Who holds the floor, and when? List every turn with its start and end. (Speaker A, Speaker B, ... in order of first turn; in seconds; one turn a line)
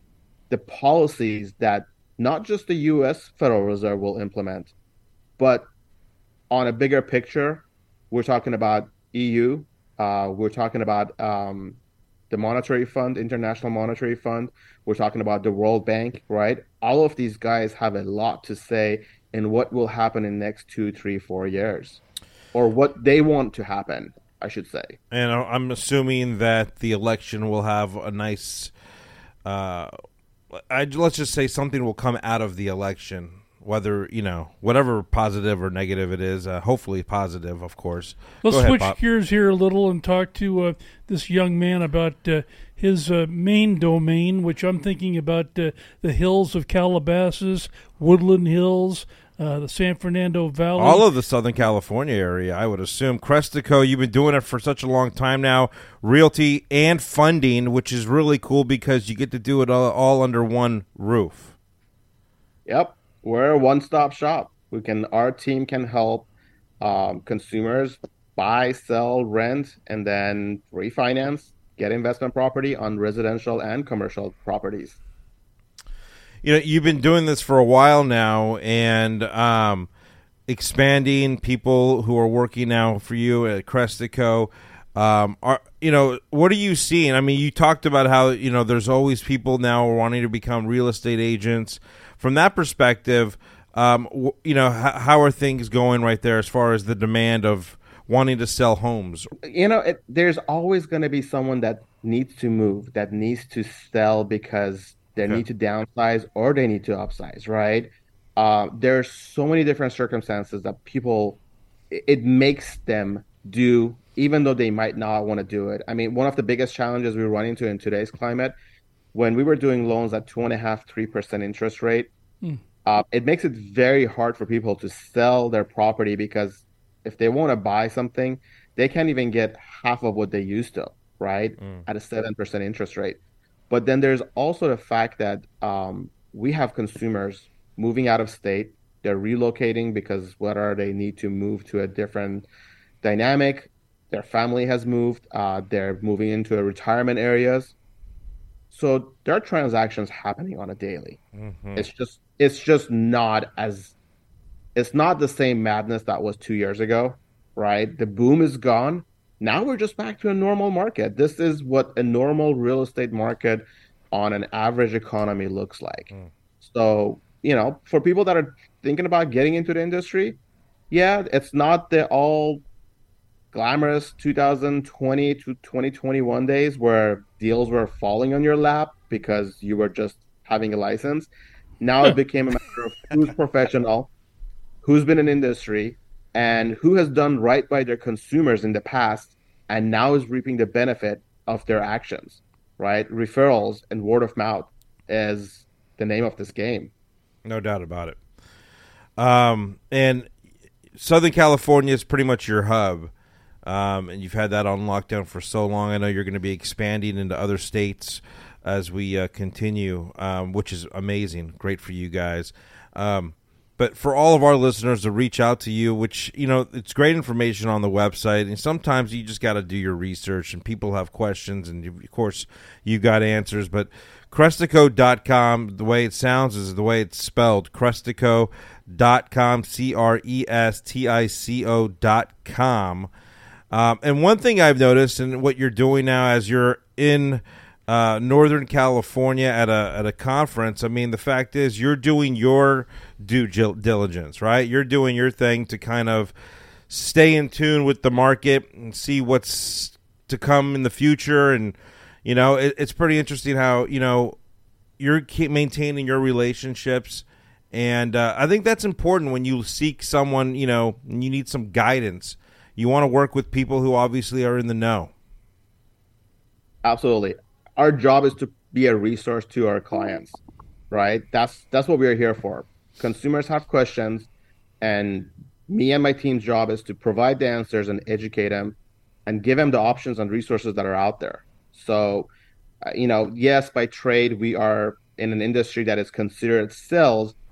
Speaker A: 0.5-4.7
Speaker A: 5.4-5.7
Speaker A: 6.5-11.8
Speaker A: 12.3-22.0
Speaker A: 22.5-25.0
Speaker B: 25.1-28.7
Speaker B: 29.4-29.9
Speaker B: 30.5-39.0
Speaker C: 38.4-51.0
Speaker B: 50.8-61.5
Speaker A: 62.6-66.3
Speaker A: 66.8-75.0
Speaker B: 76.4-79.9
Speaker B: 80.5-99.3
Speaker A: 99.4-111.4
Speaker A: 111.9-118.5
Speaker A: 119.1-122.1
Speaker A: 122.8-133.2
Speaker A: 133.7-142.5
Speaker A: 143.0-147.7
Speaker A: 148.7-151.2
Speaker B: 151.3-151.8
Speaker A: 151.8-153.9
Speaker A: 154.7-170.4
Speaker A: 170.9-172.6
Speaker A: 173.5-181.3
Speaker A: 181.8-184.1
Speaker A: 184.8-196.9
Speaker B: 197.4-198.2
Speaker B: 199.2-200.3
Speaker B: 200.9-203.1
Speaker B: 203.6-233.1
Speaker B: 233.7-246.3
Speaker B: 246.9-254.4
Speaker B: 255.0-265.1
Speaker A: 266.8-274.3
Speaker A: 274.8-282.3
Speaker A: 282.9-287.4